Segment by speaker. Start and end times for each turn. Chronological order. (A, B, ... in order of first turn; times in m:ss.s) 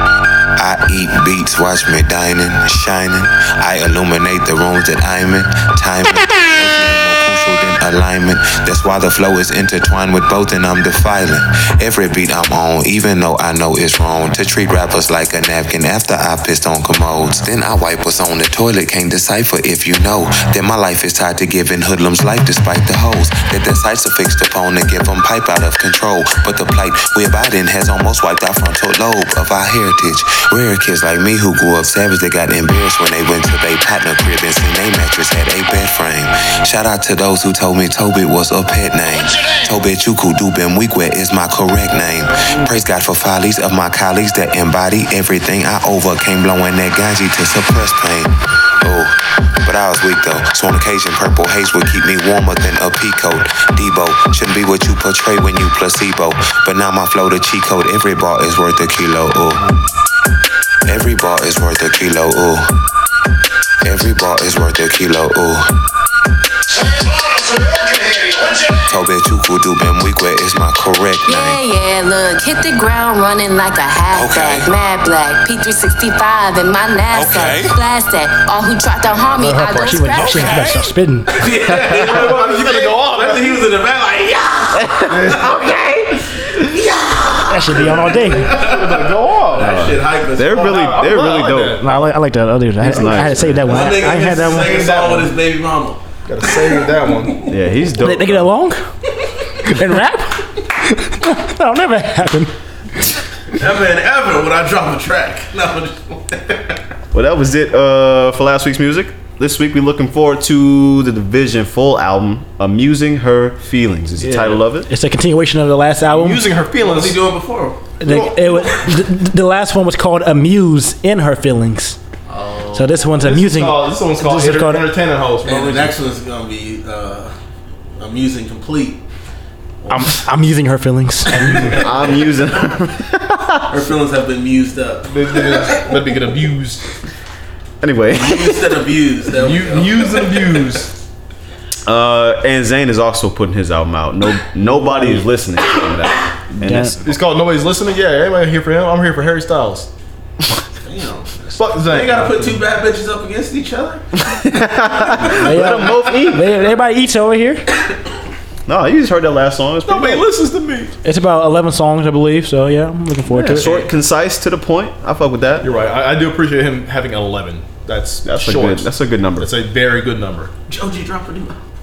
0:00.6-0:59.7 A
1:00.8-1:02.7 A
1:03.8-1:05.7 A
1:08.8-1:11.6 A
1:11.2-1:20.5 B
1:14.1-1:14.7 A
1:17.1-1:17.7 C
1:19.4-1:20.7 C
1:19.5-1:21.3 D
1:21.3-1:25.8 E
1:21.6-1:23.7 C
1:25.0-1:25.7 F
1:26.5-1:31.1 E
1:27.5-1:28.6 D
1:28.5-1:29.7 C
1:29.6-1:31.9 F
1:30.6-1:32.1 C
1:31.8-1:34.9 D
1:32.8-1:33.8 F
1:33.6-1:36.0 E
1:34.0-1:35.3 C
1:36.3-1:37.5 C
1:37.5-1:38.5 F
1:38.0-1:38.8 D
1:39.6-1:42.5 D
1:43.5-1:46.8 E
1:47.1-1:54.9 F
1:54.2-1:54.5 C
1:54.9-1:56.5 D
1:56.1-1:57.2 C
1:56.8-1:57.8 E
1:58.0-2:02.0 D
1:58.1-1:58.7 C
2:02.3-2:03.1 E
2:02.7-2:04.9 D
2:03.2-2:06.0 C
2:05.4-2:07.3 E
2:08.0-2:09.0 E
2:09.8-2:10.2 E
2:09.9-2:11.6 D
2:11.3-2:12.2 E
2:11.4-2:11.7 C
2:11.8-2:13.7 F
2:13.7-2:15.9 E
2:15.1-2:16.8 C
2:17.8-2:18.8 F
2:18.2-2:20.6 E
2:19.4-2:20.9 C
2:21.8-2:27.0 F
2:26.6-2:27.0 D
2:27.0-2:29.9 C
2:30.8-2:34.0 E
2:31.6-2:32.6 C
2:34.3-2:36.5 F
2:35.2-2:36.0 E
2:35.4-2:37.6 D
2:38.7-2:40.3 F
2:39.8-2:40.9 C
2:41.0-2:43.8 D
2:43.3-2:45.7 F
2:45.6-2:50.5 C
2:48.2-2:49.5 F
2:50.7-2:51.6 E